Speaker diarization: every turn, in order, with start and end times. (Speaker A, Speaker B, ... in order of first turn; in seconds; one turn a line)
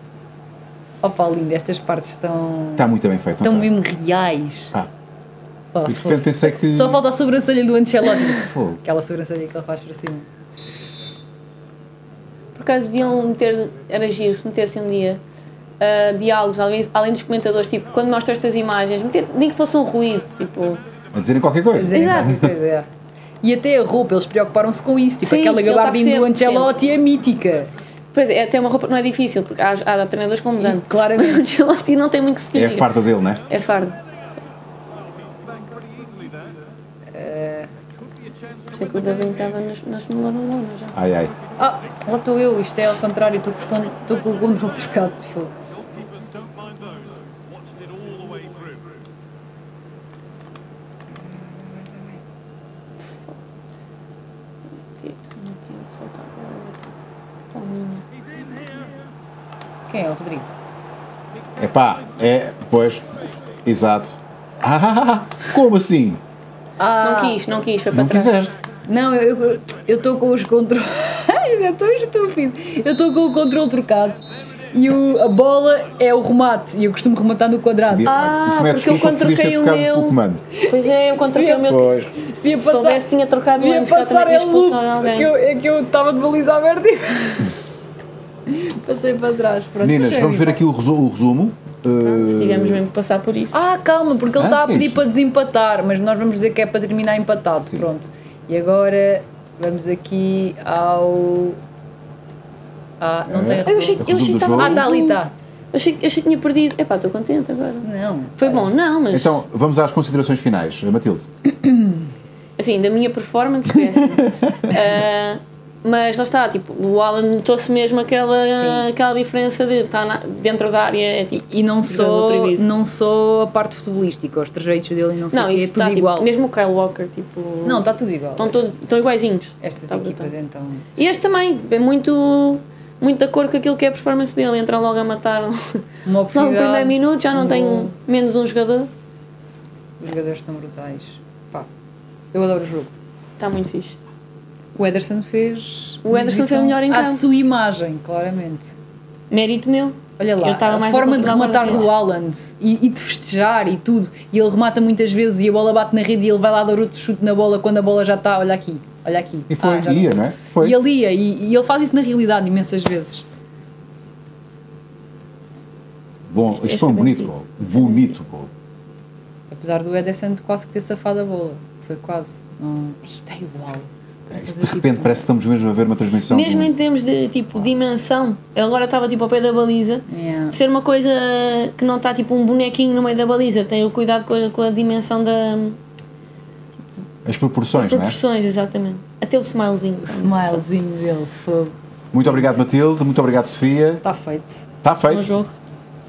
Speaker A: 1.0-4.7
Speaker B: 2.8-3.8
Speaker A: 5.7-10.3
Speaker B: 5.9-7.0
Speaker B: 8.3-8.8
Speaker C: 12.6-15.2
Speaker C: 15.8-20.8
Speaker B: 21.1-22.5
Speaker A: 21.8-22.9
Speaker C: 21.9-22.4
Speaker A: 23.4-27.7
Speaker C: 25.2-26.7
Speaker C: 28.1-34.0
Speaker A: 30.6-31.5
Speaker B: 32.5-33.4
Speaker A: 37.1-37.7
Speaker C: 38.7-41.0
Speaker B: 41.0-41.3
Speaker A: 41.6-45.5
Speaker A: 51.2-52.2
Speaker C: 55.0-56.9
Speaker C: 57.5-58.0
Speaker A: 59.9-60.5
Speaker B: 61.6-63.1
Speaker B: 63.6-66.2
Speaker A: 66.8-67.5
Speaker C: 67.0-68.3
Speaker B: 67.9-68.6
Speaker A: 68.8-74.2
Speaker A: 74.7-78.1
Speaker B: 77.9-80.4
Speaker C: 78.1-82.0
Speaker A: 80.6-83.0
Speaker B: 81.7-82.1
Speaker C: 82.6-85.3
Speaker A: 83.6-87.5
Speaker A: 88.5-90.6
Speaker B: 89.8-92.8
Speaker C: 92.0-93.6
Speaker A: 93.5-101.6
Speaker B: 94.3-95.0
Speaker A: 103.0-105.3
Speaker B: 103.3-104.9
Speaker C: 103.6-105.2
Speaker C: 105.7-109.4
Speaker A: 107.8-108.7
Speaker B: 109.1-111.3
Speaker C: 112.6-122.7
Speaker B: 114.3-114.7
Speaker A: 118.5-118.9
Speaker A: 121.3-126.3
Speaker C: 125.3-127.8
Speaker A: 127.6-128.6
Speaker C: 128.4-130.3
Speaker A: 129.6-131.0
Speaker C: 131.0-138.9
Speaker A: 136.1-137.9
Speaker A: 140.0-141.7
Speaker A: 142.3-142.9
Speaker C: 143.4-144.0
Speaker A: 144.8-148.7
Speaker C: 146.0-147.2
Speaker C: 149.3-151.9
Speaker A: 150.2-163.2
Speaker B: 159.5-160.8
Speaker B: 166.3-168.5
Speaker C: 166.5-168.1
Speaker A: 169.5-175.3
Speaker B: 174.3-176.7
Speaker C: 176.3-185.8
Speaker A: 180.1-180.6
Speaker B: 187.2-188.2
Speaker C: 187.7-190.6
Speaker A: 190.0-191.8
Speaker B: 192.1-194.0
Speaker A: 194.0-194.7
Speaker B: 194.8-195.3
Speaker C: 195.1-195.5